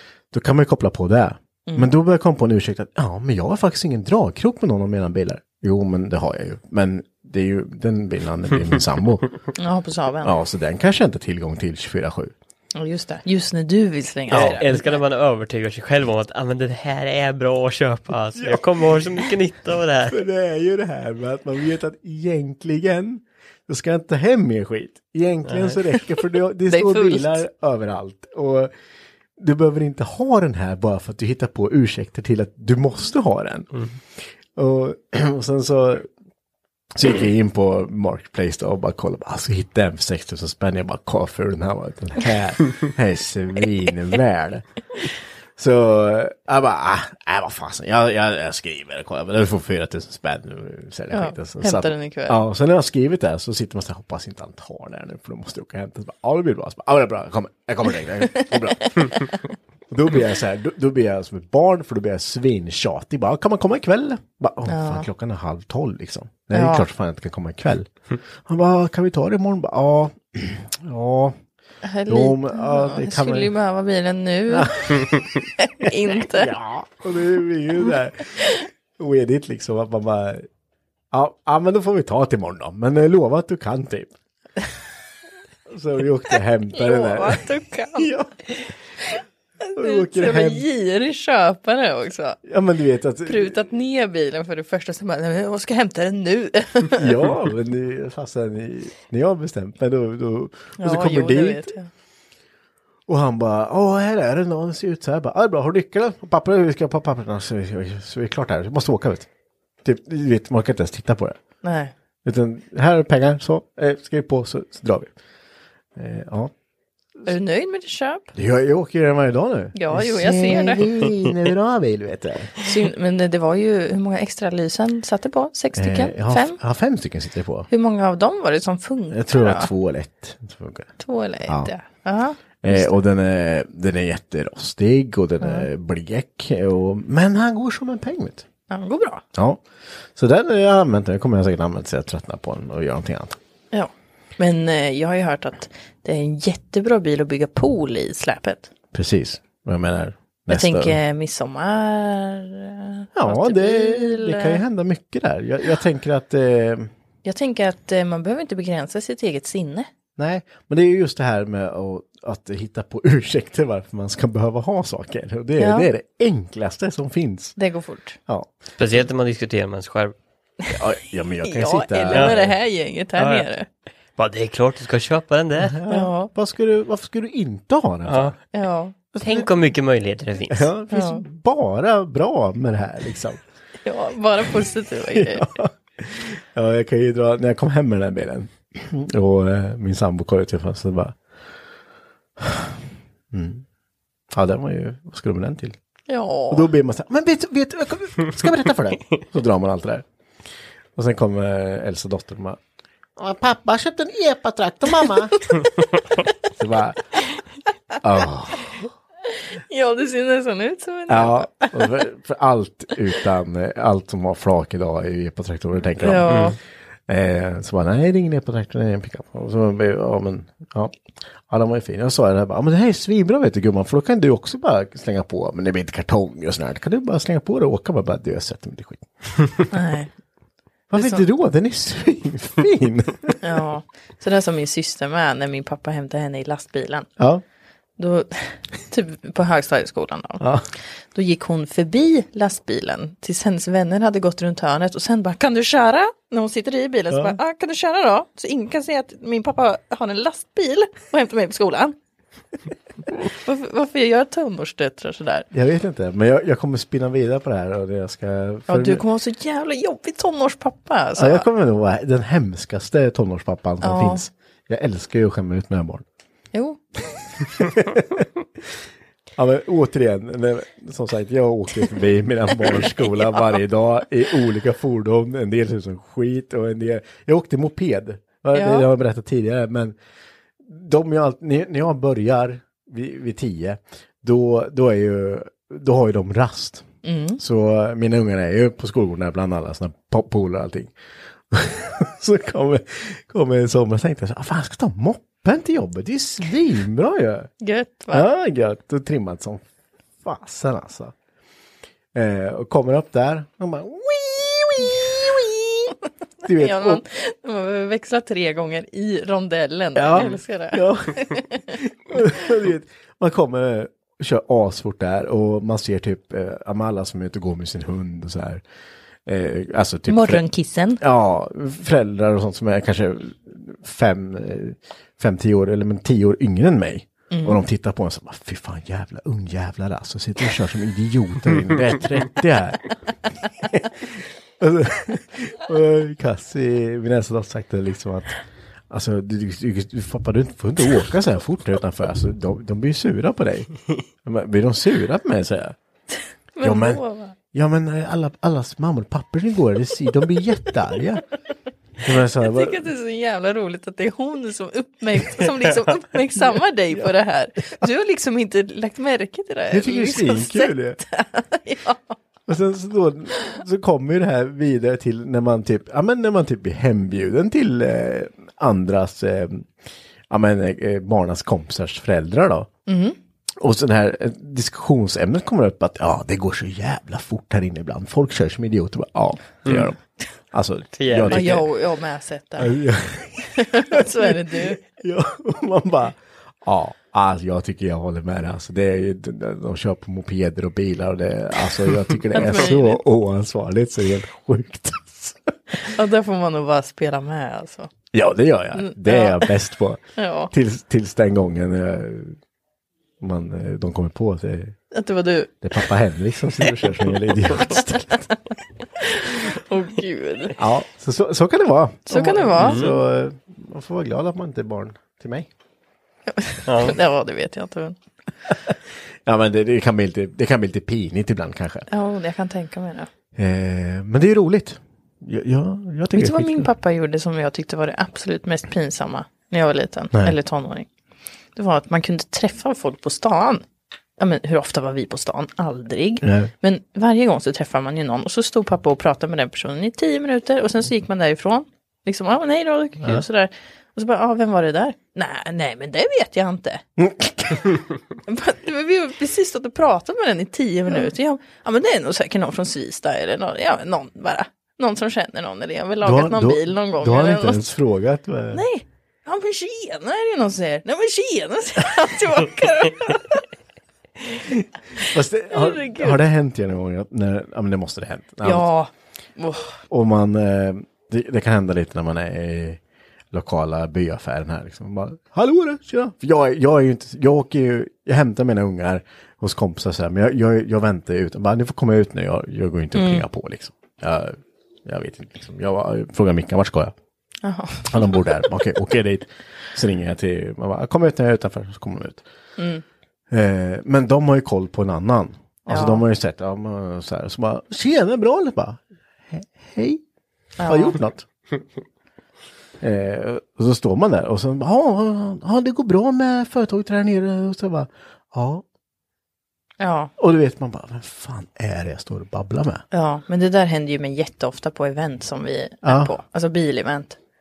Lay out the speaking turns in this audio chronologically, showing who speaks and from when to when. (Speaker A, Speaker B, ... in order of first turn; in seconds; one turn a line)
Speaker A: 0.3-9.2
Speaker B: 9.6-10.3
Speaker A: 10.2-12.3
Speaker B: 12.8-14.8
Speaker A: 14.3-14.8
Speaker C: 14.3-20.2
Speaker A: 18.4-19.2
Speaker A: 20.1-28.7
Speaker C: 25.5-25.8
Speaker B: 26.7-27.4
Speaker A: 29.4-36.1
Speaker A: 37.0-44.7
Speaker A: 45.6-59.3
Speaker B: 51.1-52.4
Speaker B: 58.4-59.3
Speaker A: 59.9-67.9
Speaker B: 64.7-65.1
Speaker B: 66.5-66.9
Speaker A: 68.5-71.4
Speaker B: 71.8-75.0
Speaker A: 72.1-73.5
Speaker A: 74.5-75.2
Speaker B: 75.6-76.5
Speaker A: 75.8-80.5
Speaker A: 81.1-84.1
Speaker A: 85.7-88.7
Speaker B: 86.7-88.1
Speaker B: 89.7-92.4
Speaker A: 89.8-90.7
Speaker A: 92.4-93.7
Speaker B: 93.3-97.1
Speaker A: 97.0-101.7
Speaker B: 100.8-101.9
Speaker A: 103.1-109.3
Speaker A: 109.8-111.4
Speaker B: 111.6-111.9
Speaker A: 112.2-115.1
Speaker A: 116.0-116.5
Speaker B: 117.3-118.3
Speaker A: 118.3-122.6
Speaker B: 119.8-120.9
Speaker B: 122.6-126.6
Speaker A: 125.8-127.7
Speaker B: 127.7-129.7
Speaker A: 129.1-130.9
Speaker B: 131.0-132.9
Speaker A: 132.6-138.4
Speaker B: 135.4-135.7
Speaker B: 138.7-139.2
Speaker A: 139.3-139.6
Speaker A: 140.2-143.4
Speaker B: 143.7-148.7
Speaker A: 148.9-151.0
Speaker B: 150.5-154.6
Speaker A: 153.2-156.9
Speaker B: 157.2-159.9
Speaker A: 160.2-167.6
Speaker B: 165.6-165.9
Speaker B: 167.6-168.2
Speaker A: 168.3-168.5
Speaker C: 168.8-170.1
Speaker A: 170.7-172.5
Speaker B: 171.4-173.7
Speaker C: 172.1-172.4
Speaker C: 173.2-173.5
Speaker C: 174.2-175.8
Speaker A: 175.6-178.4
Speaker B: 175.9-176.3
Speaker C: 178.1-178.3
Speaker B: 178.5-178.9
Speaker A: 179.1-179.5
Speaker C: 179.2-180.7
Speaker A: 180.5-183.4
Speaker B: 180.9-181.2
Speaker B: 183.8-185.5
Speaker A: 185.1-191.2
Speaker A: 192.4-192.8
Speaker A: 193.3-193.7
Speaker A: 194.3-195.8
Speaker B: 196.1-196.7
Speaker A: 196.5-200.1
Speaker A: 201.0-202.6
Speaker A: 203.2-205.7
Speaker A: 206.4-207.2
Speaker A: 208.0-208.9
Speaker B: 209.6-211.8
Speaker A: 211.1-216.5
Speaker B: 216.0-216.6
Speaker C: 216.3-216.5
Speaker A: 217.1-221.0
Speaker A: 221.5-229.5
Speaker B: 229.7-230.1
Speaker A: 230.9-233.4
Speaker B: 230.9-231.2
Speaker B: 233.4-237.1
Speaker A: 237.2-237.4
Speaker B: 238.0-240.4
Speaker A: 240.4-240.7
Speaker B: 241.1-251.9
Speaker A: 247.1-247.4
Speaker B: 253.3-255.5
Speaker A: 255.5-259.0
Speaker B: 258.7-261.5
Speaker A: 261.2-266.1
Speaker B: 263.8-264.3
Speaker B: 266.5-266.8
Speaker A: 267.5-268.3
Speaker A: 269.4-280.0
Speaker B: 278.5-278.9
Speaker A: 280.6-286.9
Speaker B: 287.0-287.4
Speaker A: 287.4-290.9
Speaker A: 291.5-297.5
Speaker B: 297.6-298.3
Speaker A: 298.1-299.6
Speaker A: 300.2-301.1
Speaker A: 302.1-307.0
Speaker B: 306.5-311.6
Speaker A: 310.0-318.6
Speaker A: 319.3-320.4
Speaker B: 320.1-321.0
Speaker A: 321.0-338.4
Speaker B: 327.3-327.6
Speaker A: 338.9-343.7
Speaker A: 344.2-345.8
Speaker B: 346.6-347.4
Speaker A: 346.6-351.2
Speaker A: 352.0-352.8
Speaker B: 352.4-362.2
Speaker A: 359.7-361.0
Speaker A: 362.5-369.7
Speaker A: 370.3-372.7
Speaker B: 372.9-373.2
Speaker A: 373.6-380.0
Speaker C: 379.6-379.9
Speaker A: 380.5-381.6
Speaker C: 381.0-381.6
Speaker B: 381.3-382.7
Speaker A: 382.6-395.5
Speaker B: 383.6-384.8
Speaker B: 392.3-393.0
Speaker B: 395.7-397.9
Speaker A: 398.1-402.4
Speaker B: 398.8-399.4
Speaker B: 400.2-400.5
Speaker A: 403.2-404.8
Speaker B: 404.9-405.6
Speaker A: 405.6-408.3
Speaker B: 409.0-410.6
Speaker A: 410.6-415.5
Speaker B: 412.1-412.8
Speaker C: 412.6-412.9
Speaker B: 416.4-418.0
Speaker C: 416.7-417.0
Speaker A: 418.7-421.9
Speaker B: 421.9-423.1
Speaker A: 423.4-426.7
Speaker B: 426.1-430.9
Speaker B: 431.6-433.6
Speaker B: 434.2-446.8
Speaker A: 436.2-436.5
Speaker A: 447.0-447.7
Speaker B: 448.3-457.7
Speaker A: 456.0-458.7
Speaker B: 458.5-463.4
Speaker A: 464.5-468.7
Speaker B: 465.0-466.2
Speaker B: 468.4-469.7
Speaker A: 469.9-472.8
Speaker A: 473.3-486.9
Speaker B: 482.9-483.3
Speaker B: 487.4-488.3
Speaker A: 487.9-492.2
Speaker B: 492.6-492.8
Speaker A: 493.3-500.0
Speaker B: 495.7-496.0
Speaker B: 500.6-501.0
Speaker A: 500.6-501.2
Speaker A: 502.8-508.6
Speaker B: 509.8-510.1
Speaker A: 510.2-512.8
Speaker B: 512.9-517.2
Speaker A: 515.8-516.1